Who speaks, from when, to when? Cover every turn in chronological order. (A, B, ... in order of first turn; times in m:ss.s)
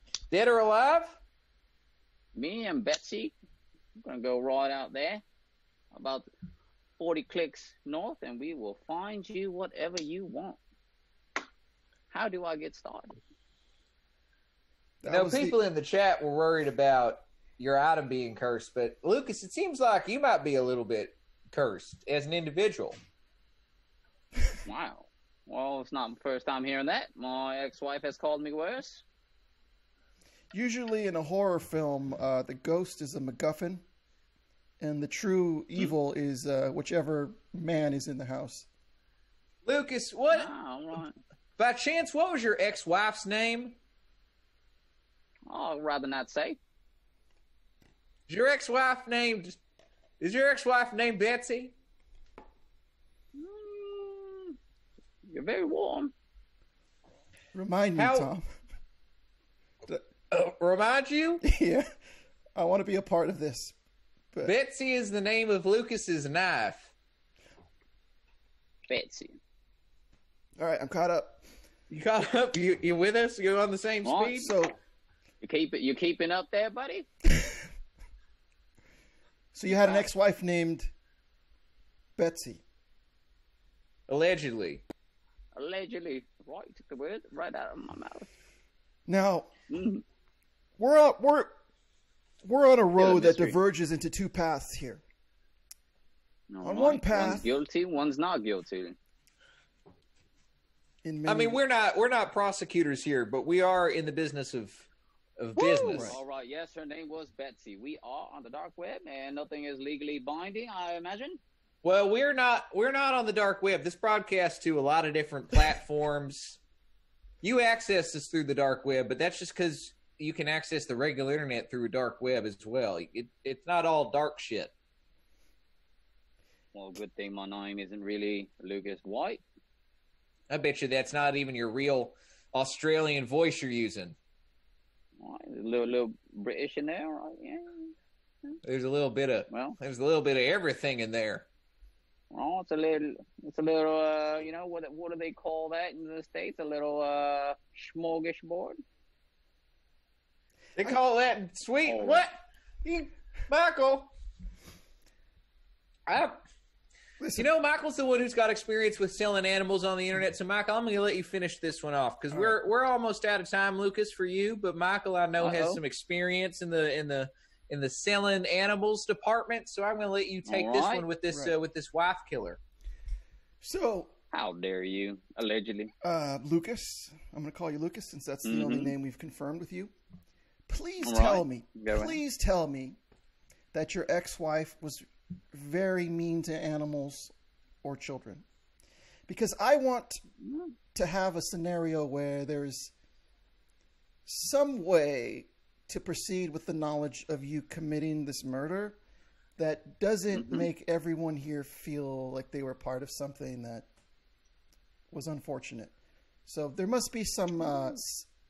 0:00.3-0:01.2 A
0:02.4-0:03.4 B
0:04.0-0:05.2 B
0:05.9-0:06.3 B
0:07.0-0:10.6 B
0:12.1-0:13.2 B
0:15.0-0:15.6 C
0:15.1-0:23.0 A
0:24.6-0:29.0 B
0:30.5-0:33.8 C
0:34.8-0:38.7 C
0:39.6-0:40.5 A
0:40.3-0:41.2 B
0:41.6-0:43.8 A
0:45.5-0:46.6 B
0:48.3-0:49.6 A
0:50.2-0:51.7 A
0:53.4-0:54.6 B
0:55.3-0:56.1 B
0:57.5-0:58.5 C
0:58.0-0:58.3 A
1:00.3-1:01.4 A
1:01.4-1:01.9 C
1:02.6-1:03.8 C
1:04.4-1:06.9 A
1:08.9-1:09.4 B
1:10.6-1:11.4 C
1:11.9-1:14.6 A
1:14.0-1:14.4 B
1:14.4-1:14.8 C
1:15.4-1:17.1 B
1:19.5-1:20.9 C
1:19.7-1:20.1 B
1:22.2-1:22.6 C
1:24.1-1:24.8 A
1:25.6-1:28.3 B
1:29.1-1:29.5 C
1:29.7-1:30.0 B
1:30.8-1:31.5 C
1:32.4-1:35.0 C
1:33.0-1:33.6 B
1:36.5-1:39.0 B
1:36.6-1:37.5 C
1:41.0-1:41.6 C
1:41.3-1:44.9 A
1:45.4-1:46.2 A
1:45.6-1:51.4 B
1:45.7-1:46.2 C
1:51.8-1:56.6 A
1:57.4-2:04.7 A
2:06.7-2:09.4 B
2:10.5-2:14.2 A
2:15.2-2:17.9 B
2:18.6-2:21.5 A
2:19.5-2:19.8 B
2:22.3-2:28.8 B
2:30.8-2:34.1 A
2:31.9-2:32.3 B
2:36.1-2:36.4 A
2:37.2-2:37.5 C
2:37.4-2:52.6 A
2:42.3-2:42.6 C
2:45.4-2:45.8 B
2:50.5-2:51.1 B
2:53.6-2:54.1 C
2:54.3-2:55.9 B
2:56.0-2:59.9 C
2:58.4-2:59.0 B
3:00.7-3:03.0 C
3:01.0-3:02.2 B
3:03.7-3:07.3 C
3:07.8-3:08.4 C
3:09.3-3:10.2 C
3:10.4-3:10.7 B
3:10.9-3:12.9 C
3:14.3-3:19.0 C
3:19.6-3:23.9 C
3:20.3-3:20.7 B
3:25.1-3:25.9 C
3:26.5-3:28.3 C